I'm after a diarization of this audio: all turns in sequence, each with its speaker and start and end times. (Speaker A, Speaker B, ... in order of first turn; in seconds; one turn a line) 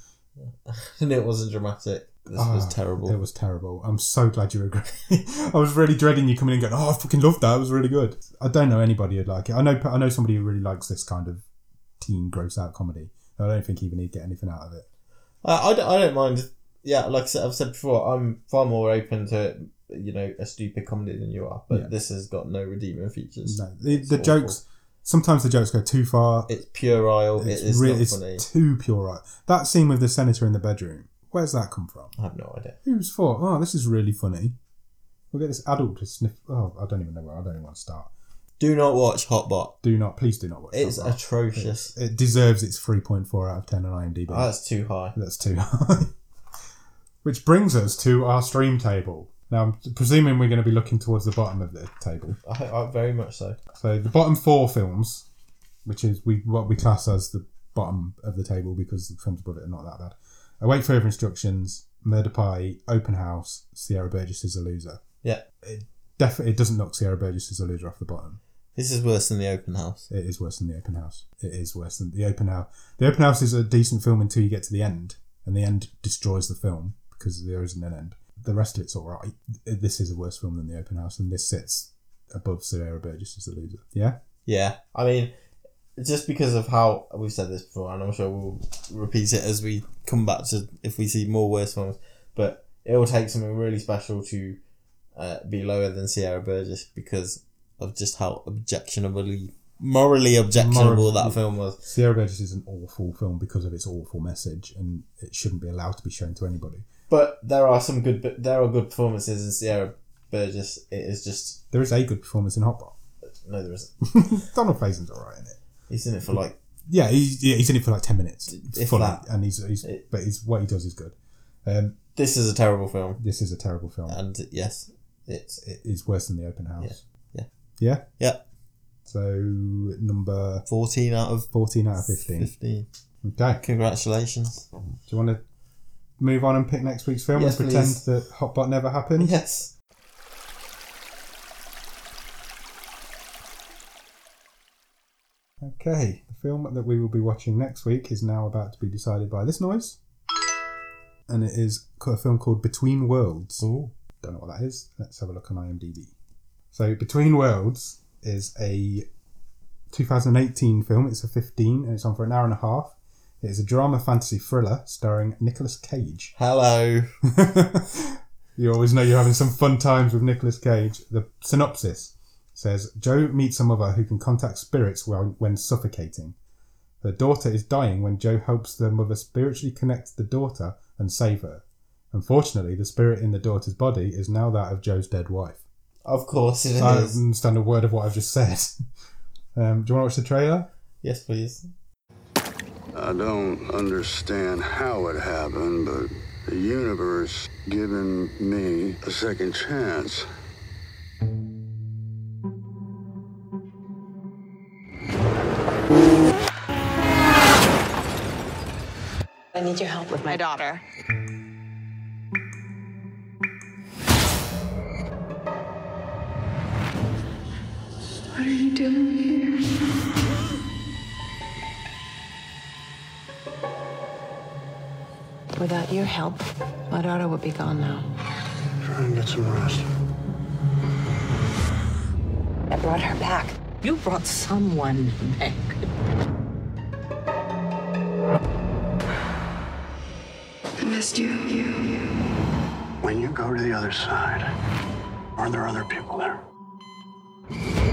Speaker A: 0.4-3.2
Speaker B: 2.4-11.4
Speaker B: 12.0-14.9
Speaker A: 15.4-24.6
Speaker B: 23.5-26.5
Speaker A: 26.5-28.4
Speaker B: 27.4-32.1
Speaker A: 32.2-32.8
Speaker B: 32.8-34.6
Speaker B: 35.3-38.1
Speaker A: 38.6-39.8
Speaker B: 39.8-44.5
Speaker A: 40.7-41.9
Speaker A: 44.3-45.2
Speaker B: 45.1-46.1
Speaker B: 47.2-52.4
Speaker A: 52.5-53.6
Speaker B: 53.7-55.3
Speaker B: 55.9-65.0
Speaker B: 65.6-68.4
Speaker A: 68.8-70.1
Speaker B: 70.1-84.2
Speaker A: 84.5-85.3
Speaker A: 86.0-94.6
Speaker A: 95.2-101.8
Speaker B: 100.5-106.9
Speaker A: 107.1-111.6
Speaker B: 111.7-113.0
Speaker A: 113.3-113.9
Speaker B: 114.1-115.6
Speaker A: 115.9-116.6
Speaker B: 116.9-122.0
Speaker A: 118.5-119.3
Speaker A: 122.2-123.2
Speaker B: 123.2-124.2
Speaker A: 124.1-125.6
Speaker B: 125.6-127.0
Speaker A: 126.8-127.5
Speaker B: 127.8-128.1
Speaker B: 129.1-130.7
Speaker A: 130.7-132.9
Speaker B: 131.5-132.5
Speaker B: 133.2-133.6
Speaker A: 133.6-134.7
Speaker B: 135.1-135.4
Speaker B: 136.2-139.4
Speaker A: 137.3-138.0
Speaker A: 139.2-139.7
Speaker B: 145.6-150.0
Speaker B: 151.3-153.7
Speaker A: 153.6-153.9
Speaker B: 154.2-156.1
Speaker B: 156.7-159.1
Speaker B: 159.9-166.3
Speaker A: 166.4-167.1
Speaker B: 167.2-176.4
Speaker B: 177.0-185.6
Speaker A: 186.1-187.2
Speaker B: 186.8-188.8
Speaker B: 189.6-190.7
Speaker A: 191.0-191.7
Speaker C: 192.9-200.3
Speaker D: 209.5-210.8
Speaker E: 210.1-210.5
Speaker F: 218.3-219.6
Speaker D: 225.6-228.1
Speaker C: 228.8-229.9
Speaker D: 232.7-233.6
Speaker E: 233.8-235.9
Speaker F: 240.8-242.1
Speaker C: 243.0-244.5
Speaker C: 245.4-246.4